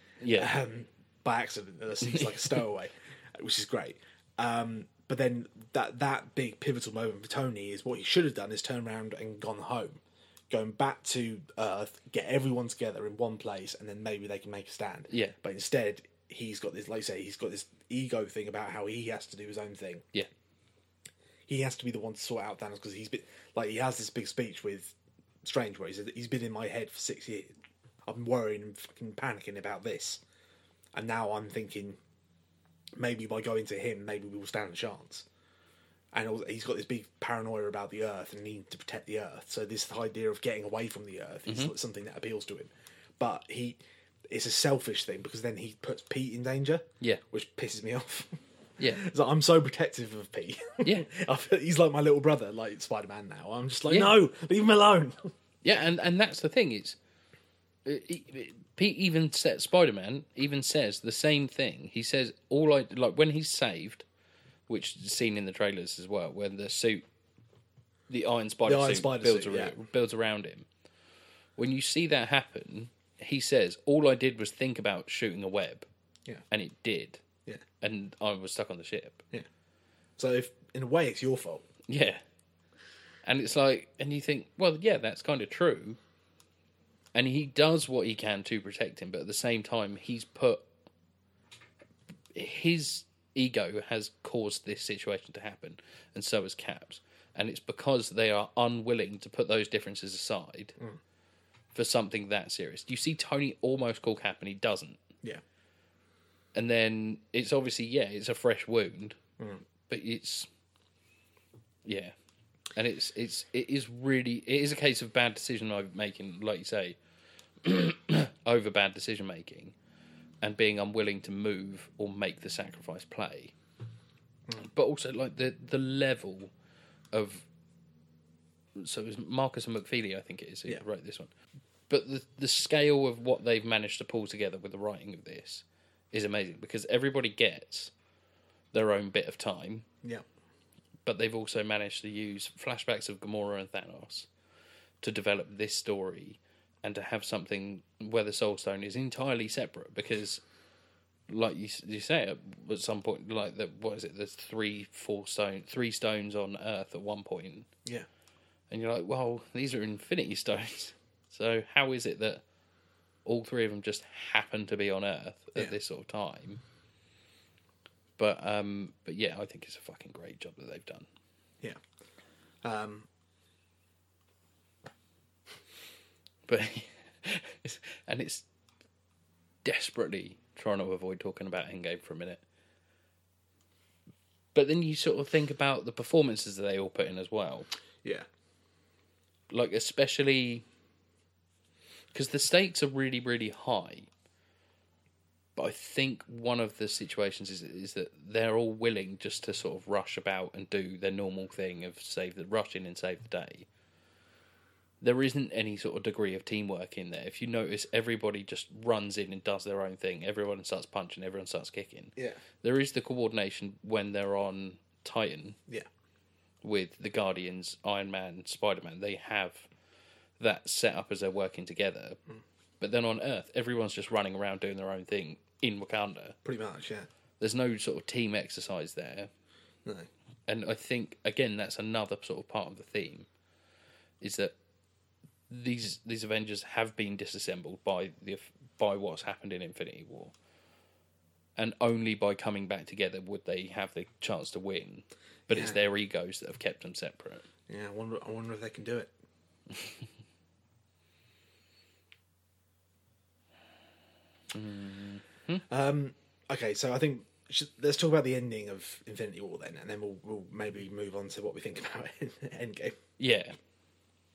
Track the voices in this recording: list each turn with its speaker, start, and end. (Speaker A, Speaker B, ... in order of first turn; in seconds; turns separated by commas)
Speaker A: 0.2-0.6, Speaker B: 0.3-20.1, Speaker A: 2.0-2.6, Speaker A: 15.1-15.3, Speaker B: 21.5-27.5, Speaker B: 28.1-30.2, Speaker B: 30.9-32.0, Speaker B: 33.0-35.2, Speaker B: 36.1-55.3, Speaker A: 41.5-41.7, Speaker A: 48.8-49.0, Speaker A: 50.8-51.1, Speaker A: 53.9-54.1, Speaker A: 55.6-57.0, Speaker A: 57.8-64.0, Speaker A: 64.7-67.0, Speaker A: 68.1-70.7, Speaker B: 68.7-69.8, Speaker A: 71.6-75.9, Speaker A: 76.5-77.2, Speaker A: 77.8-79.2, Speaker B: 80.2-81.6, Speaker A: 81.9-82.2, Speaker A: 83.2-86.0, Speaker A: 87.1-90.7, Speaker A: 92.3-100.7, Speaker A: 101.7-105.0, Speaker A: 106.5-109.2, Speaker A: 109.9-110.5, Speaker A: 111.8-112.1, Speaker A: 112.7-117.0, Speaker A: 117.6-119.7, Speaker A: 120.4-123.5, Speaker A: 124.6-126.5, Speaker A: 127.1-127.5, Speaker A: 128.8-131.3, Speaker A: 131.9-137.9, Speaker A: 138.7-139.8, Speaker A: 141.1-144.3, Speaker A: 145.0-150.4, Speaker A: 151.3-157.7, Speaker A: 158.7-162.4, Speaker A: 163.2-166.6, Speaker A: 168.2-171.1, Speaker B: 172.6-173.1, Speaker A: 176.5-178.4, Speaker A: 179.6-182.4, Speaker A: 184.5-187.7, Speaker A: 189.5-190.6, Speaker A: 192.1-194.1, Speaker A: 195.6-203.7, Speaker A: 205.0-215.6, Speaker A: 216.6-219.7, Speaker A: 220.4-222.2, Speaker A: 222.8-226.4, Speaker B: 226.4-227.1, Speaker A: 227.4-229.3, Speaker A: 230.5-233.3, Speaker A: 234.2-234.5, Speaker A: 235.5-240.3, Speaker A: 241.6-247.4, Speaker B: 245.5-245.8, Speaker B: 247.7-249.1, Speaker A: 254.5-255.6, Speaker B: 255.7-263.0, Speaker A: 263.2-263.6